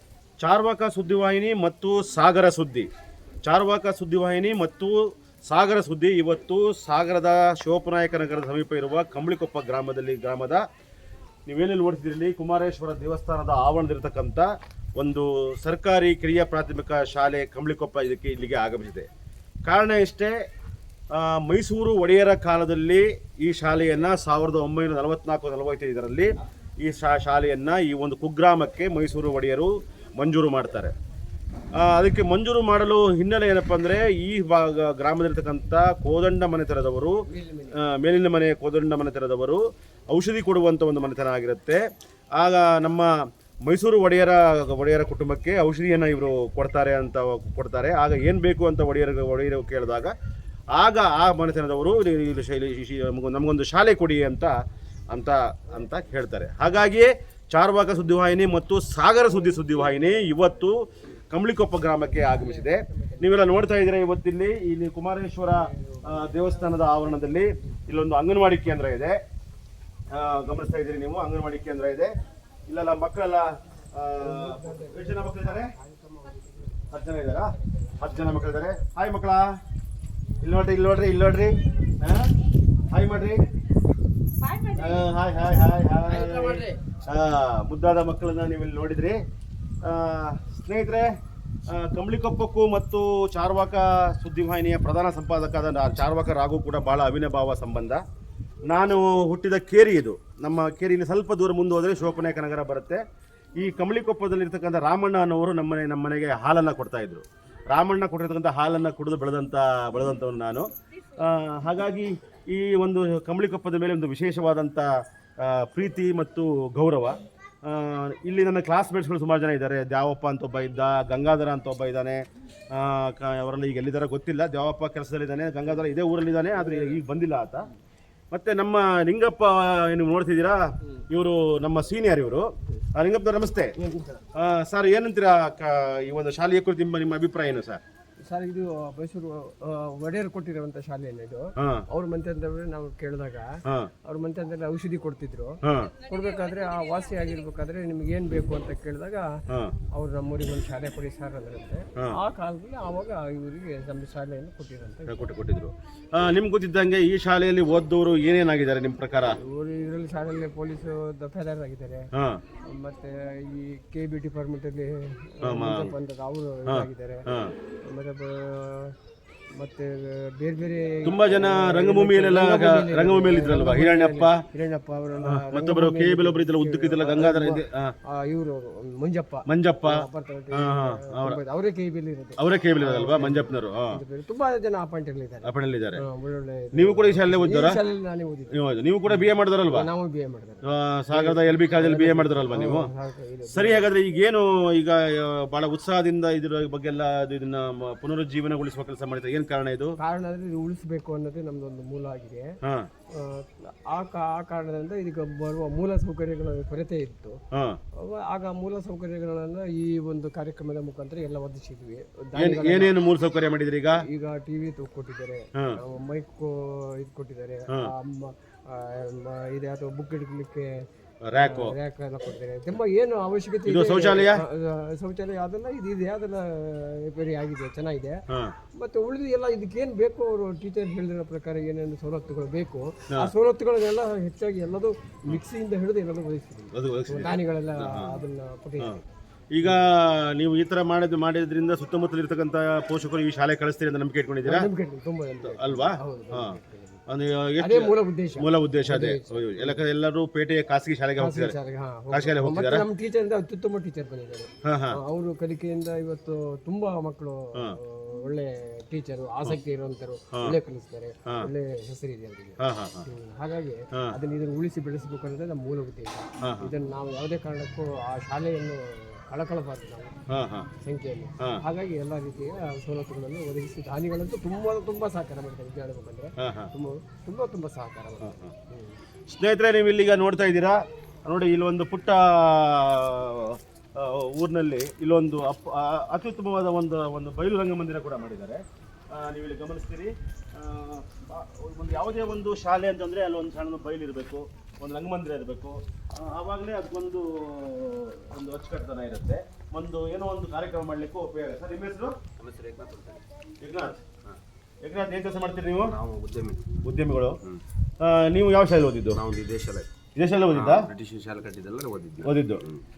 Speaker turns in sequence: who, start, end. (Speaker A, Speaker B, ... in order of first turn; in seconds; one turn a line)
Speaker A: 0.4-2.9
Speaker A: 3.4-10.6
Speaker A: 11.5-19.1
Speaker A: 19.6-20.3
Speaker A: 21.1-30.9
Speaker A: 31.8-37.1
Speaker B: 37.3-37.7
Speaker A: 37.8-39.6
Speaker A: 40.1-41.8
Speaker A: 42.4-43.1
Speaker A: 43.6-50.1
Speaker A: 50.8-54.5
Speaker A: 55.1-69.2
Speaker B: 59.3-59.8
Speaker B: 62.0-63.7
Speaker B: 65.7-67.8
Speaker A: 70.1-72.1
Speaker A: 72.7-75.7
Speaker B: 74.2-76.4
Speaker A: 76.9-79.5
Speaker B: 77.7-78.5
Speaker A: 80.4-82.2
Speaker A: 82.9-83.4
Speaker A: 84.7-89.2
Speaker A: 89.8-91.1
Speaker A: 91.7-98.0
Speaker A: 98.7-103.0
Speaker A: 103.6-114.9
Speaker A: 115.4-127.6
Speaker B: 126.6-127.0
Speaker A: 128.3-133.7
Speaker B: 133.8-134.2
Speaker A: 134.3-137.8
Speaker B: 138.3-143.5
Speaker A: 141.6-141.8
Speaker B: 144.0-149.2
Speaker A: 145.6-145.9
Speaker B: 149.9-155.1
Speaker A: 155.1-159.4
Speaker B: 159.4-162.1
Speaker A: 162.1-162.4
Speaker B: 162.6-167.2
Speaker A: 165.4-165.9
Speaker A: 166.7-167.5
Speaker B: 167.8-168.9
Speaker B: 169.6-188.5
Speaker A: 171.0-174.4
Speaker A: 175.2-177.9
Speaker A: 179.5-181.4
Speaker A: 182.4-184.0
Speaker A: 185.4-186.0
Speaker A: 186.7-187.8
Speaker A: 188.5-189.9
Speaker B: 189.1-193.9
Speaker A: 190.7-192.9
Speaker A: 193.5-199.9
Speaker B: 200.0-202.5
Speaker A: 202.6-202.9
Speaker B: 203.2-207.3
Speaker A: 207.5-207.8
Speaker B: 208.0-212.9
Speaker A: 212.3-214.0
Speaker B: 214.0-220.7
Speaker A: 221.2-221.7
Speaker B: 221.4-228.2
Speaker A: 223.7-224.4
Speaker B: 228.8-239.0
Speaker A: 236.7-238.2
Speaker A: 239.5-244.7
Speaker B: 244.4-247.0
Speaker A: 245.4-251.6
Speaker B: 247.6-249.8
Speaker B: 251.2-262.6
Speaker A: 252.1-252.9
Speaker A: 254.6-255.0
Speaker A: 262.6-263.0
Speaker B: 263.1-270.1
Speaker A: 266.4-266.7
Speaker A: 270.3-270.7
Speaker B: 270.8-278.9
Speaker A: 276.4-276.7
Speaker A: 278.2-278.5
Speaker A: 279.3-302.2
Speaker C: 302.4-303.2
Speaker A: 303.6-304.0
Speaker A: 304.8-306.0
Speaker C: 305.7-307.6
Speaker A: 306.8-307.4
Speaker A: 308.0-309.2
Speaker C: 309.1-312.8
Speaker A: 310.1-310.9
Speaker A: 312.2-312.6